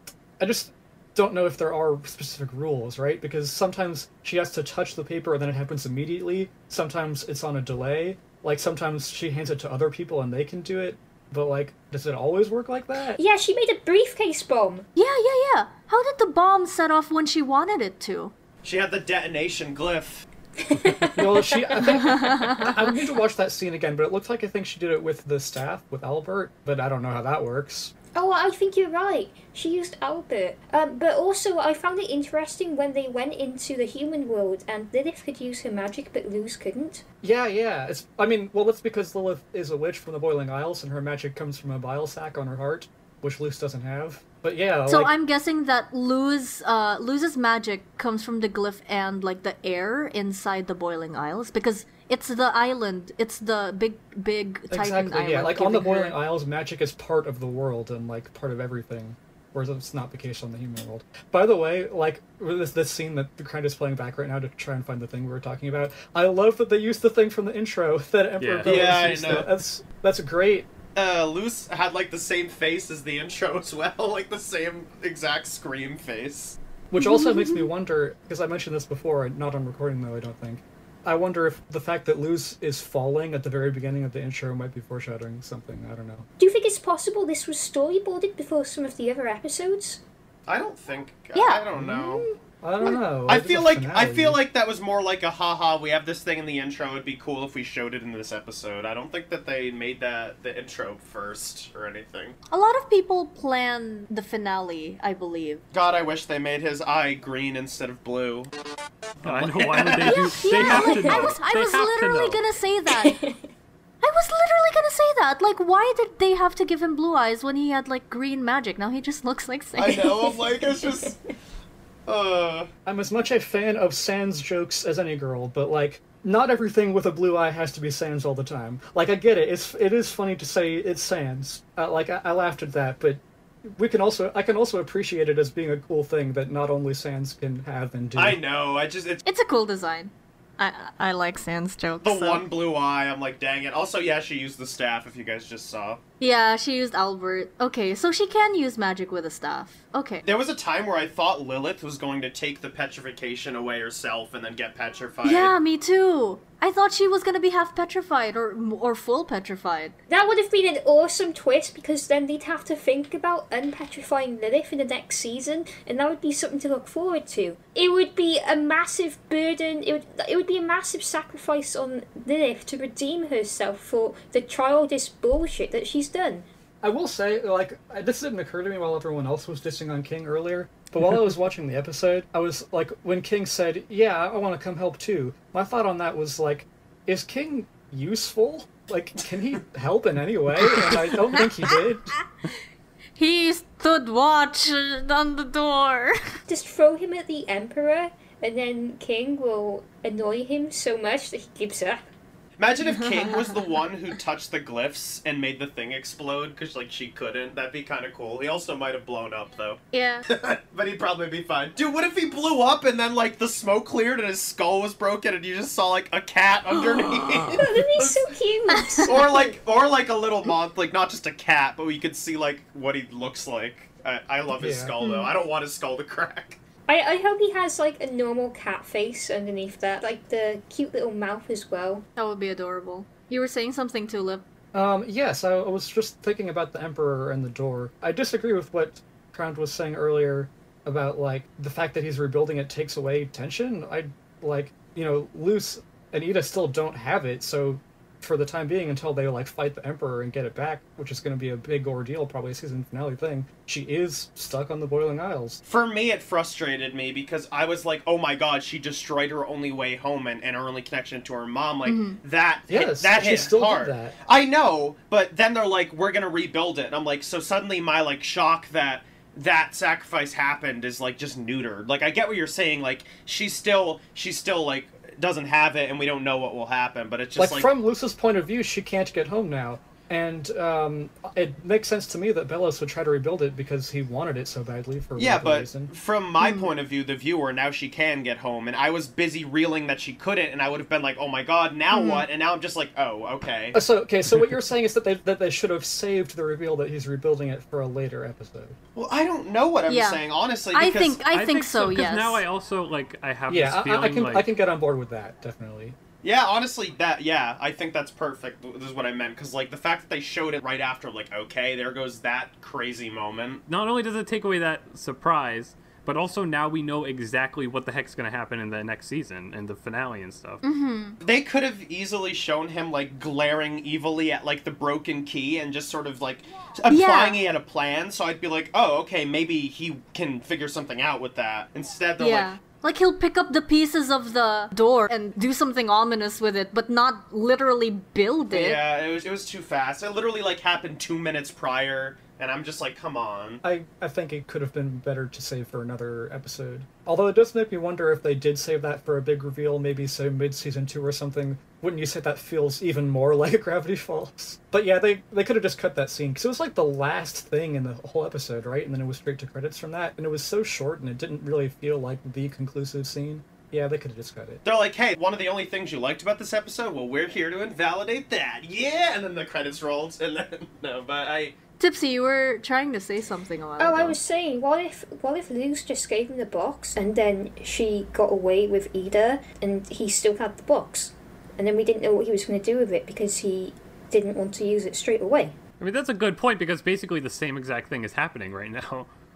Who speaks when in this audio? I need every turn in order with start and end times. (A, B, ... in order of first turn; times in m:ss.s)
0:00.4-0:13.2 A
0:13.2-0:14.9 B
0:15.0-0:18.3 C
0:18.6-0:20.3 D
0:20.6-0:22.9 B
0:21.2-0:27.9 A
0:22.0-0:22.6 C
0:28.1-0:37.0 B
0:37.2-0:45.1 A
0:44.9-0:56.2 C
0:54.7-1:10.7 A
1:08.4-1:09.4 E
1:08.6-1:09.5 D
1:10.9-1:16.6 D
1:16.9-1:26.2 A
1:17.0-1:17.6 C
1:26.4-1:30.0 B
1:30.5-1:32.2 D
1:31.3-1:33.0 C
1:31.7-1:34.4 A
1:33.3-1:42.4 D
1:42.5-1:45.6 C
1:45.7-1:48.5 D
1:49.2-1:50.9 D
1:49.2-1:52.4 E
1:50.0-1:53.2 C
1:50.6-1:51.3 B
1:52.9-1:53.4 B
1:54.0-2:00.3 C
1:59.7-2:01.2 D
2:00.8-2:01.1 B
2:02.0-2:02.7 D
2:02.8-2:18.4 A
2:18.1-2:19.2 D
2:19.2-2:22.4 C
2:22.0-2:26.0 D
2:26.2-2:30.2 C
2:30.2-2:35.5 D
2:35.2-2:40.0 C
2:40.1-2:56.4 B
2:56.8-3:12.1 A
3:13.2-3:16.4 C
3:16.5-3:22.0 B
3:22.6-3:38.1 D
3:22.8-3:23.6 C
3:29.9-3:30.3 C
3:36.7-3:37.6 C
3:37.6-3:39.5 B
3:38.7-3:39.2 C
3:39.0-3:46.6 D
3:44.5-3:44.9 A
3:45.0-3:45.3 C
3:46.9-3:52.0 B
3:52.2-3:54.4 C
3:54.7-4:15.6 A
4:15.7-4:37.7 D
4:21.8-4:22.2 C
4:22.7-4:24.1 A
4:37.4-4:45.9 A
4:45.2-4:53.8 D
4:46.4-4:46.7 C
4:51.9-4:52.3 C
4:53.7-4:58.8 A
4:58.9-5:01.2 D
4:59.9-5:02.4 C
5:01.3-5:04.4 E
5:03.5-5:06.0 A
5:06.2-5:13.6 D
5:13.7-5:20.6 E
5:20.6-5:21.2 C
5:21.2-5:32.5 D
5:26.9-5:27.4 C
5:32.2-5:38.8 C
5:38.5-5:43.6 D
5:43.6-6:04.6 A
6:04.6-6:11.6 D
6:11.8-6:14.2 C
6:13.8-6:25.6 B
6:25.8-6:29.1 E